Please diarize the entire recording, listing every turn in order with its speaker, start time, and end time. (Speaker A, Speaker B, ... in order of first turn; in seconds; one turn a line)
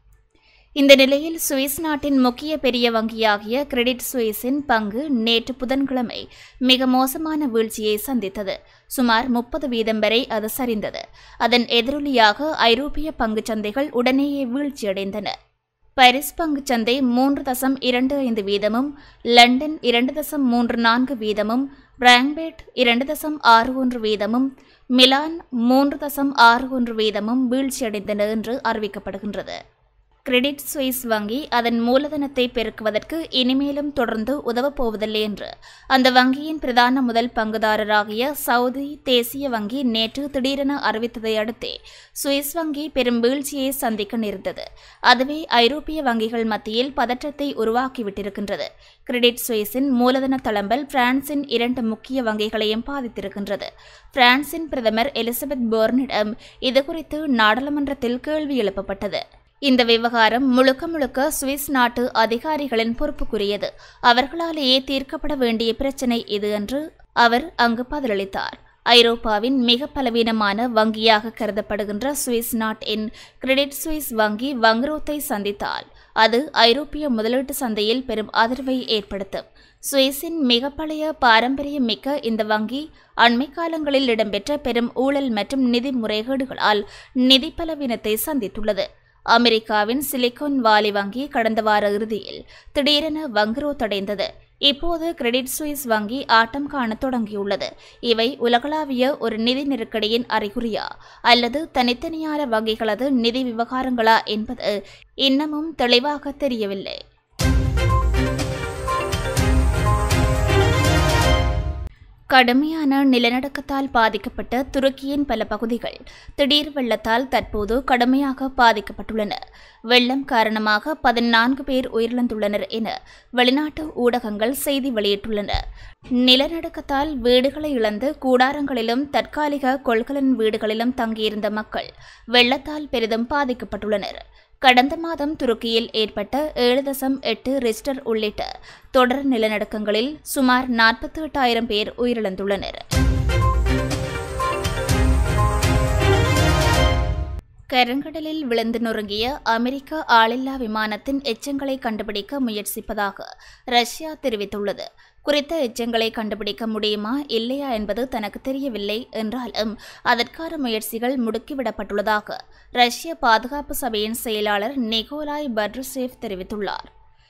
Speaker A: 0.8-15.3
Speaker A: 16.0-29.6
Speaker A: 30.3-107.0
Speaker A: 112.3-119.4
Speaker A: 119.9-125.6
Speaker A: 126.2-142.8
Speaker A: 147.7-166.9